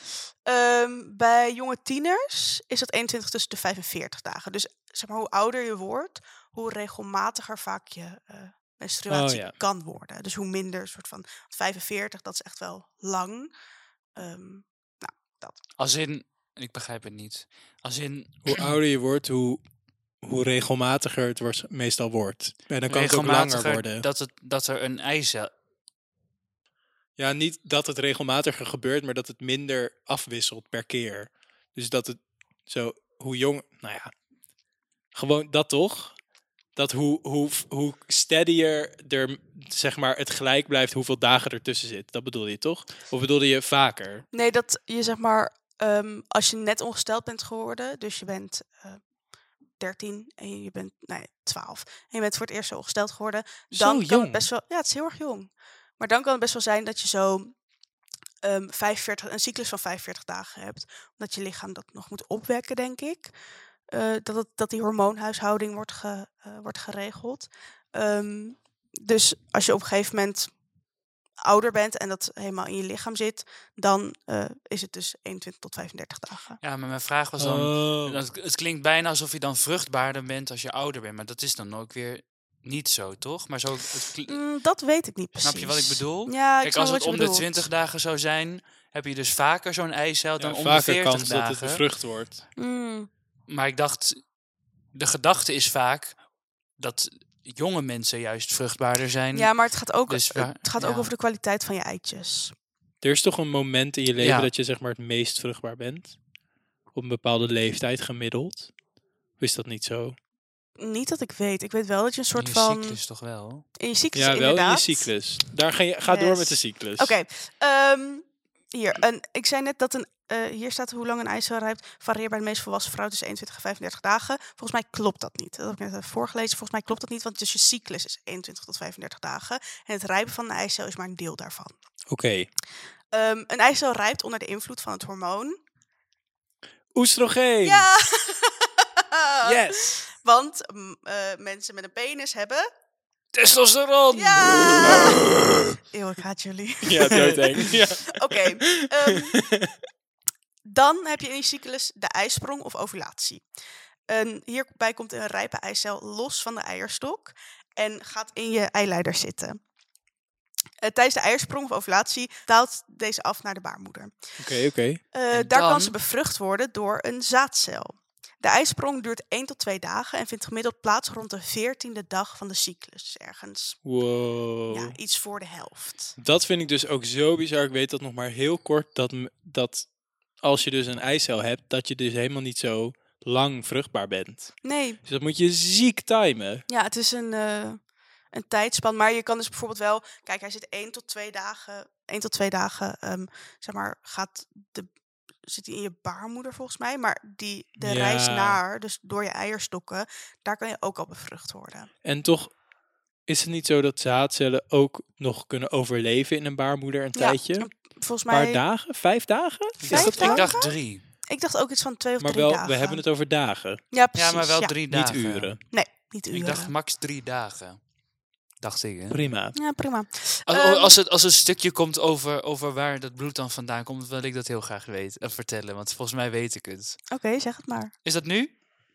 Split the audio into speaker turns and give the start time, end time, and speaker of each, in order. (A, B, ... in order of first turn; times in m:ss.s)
0:00.4-0:13.5 A
0:09.1-0:09.5 B
0:14.2-0:15.6 A
0:15.8-0:18.7 C
0:18.4-0:19.6 B
0:20.2-0:24.0 B
0:22.9-0:25.5 C
0:27.2-0:34.1 B
0:35.1-0:36.2 B
0:36.8-0:44.2 B
0:44.3-0:49.0 A
0:49.8-0:57.5 A
0:53.7-0:54.5 B
0:58.4-1:03.3 A
1:03.9-1:10.5 A
1:11.4-1:16.6 A
1:16.6-1:24.4 C
1:17.4-1:18.2 B
1:24.3-1:27.7 A
1:25.4-1:31.8 C
1:30.4-1:32.4 B
1:32.6-1:33.1 A
1:33.5-1:34.3 C
1:34.9-1:36.2 C
1:36.8-1:39.5 C
1:39.3-1:42.5 A
1:40.1-1:41.1 C
1:43.0-1:46.2 B
1:44.2-1:44.5 C
1:46.9-1:48.7 B
1:49.4-1:50.2 B
1:50.8-1:53.0 A
1:52.4-1:53.6 C
1:53.8-1:55.1 A
1:54.1-1:57.1 B
1:56.1-2:11.7 A
2:12.1-2:12.5 B
2:13.1-2:15.6 A
2:16.9-2:17.9 B
2:17.6-2:22.6 A
2:19.4-2:19.9 B
2:23.3-2:25.2 C
2:24.1-2:29.4 A
2:24.8-2:25.7 B
2:26.8-2:29.7 B
2:30.6-2:33.4 A
2:34.1-2:39.6 A
2:40.8-2:44.2 A
2:44.4-2:45.0 B
2:45.1-2:53.8 A
2:45.3-2:45.9 C
2:53.8-2:55.0 B
2:54.7-2:56.2 A
2:56.2-2:59.9 B
3:00.4-3:06.6 B
3:04.6-3:05.0 A
3:06.7-3:14.9 A
3:15.4-3:21.9 A
3:17.8-3:18.6 B
3:22.0-3:22.5 B
3:23.3-3:27.7 B
3:27.1-3:28.6 A
3:28.3-3:30.5 B
3:29.8-3:31.0 C
3:29.8-3:30.7 A
3:31.3-3:33.0 A
3:32.2-3:33.8 B
3:33.9-3:34.8 A
3:34.1-3:35.6 C
3:34.9-3:35.6 B
3:35.7-3:36.7 A
3:36.3-3:37.8 C
3:38.6-3:39.2 C
3:39.1-3:39.5 B
3:39.5-3:41.0 A
3:40.5-3:47.0 C
3:47.1-3:47.9 A
3:48.0-3:48.5 C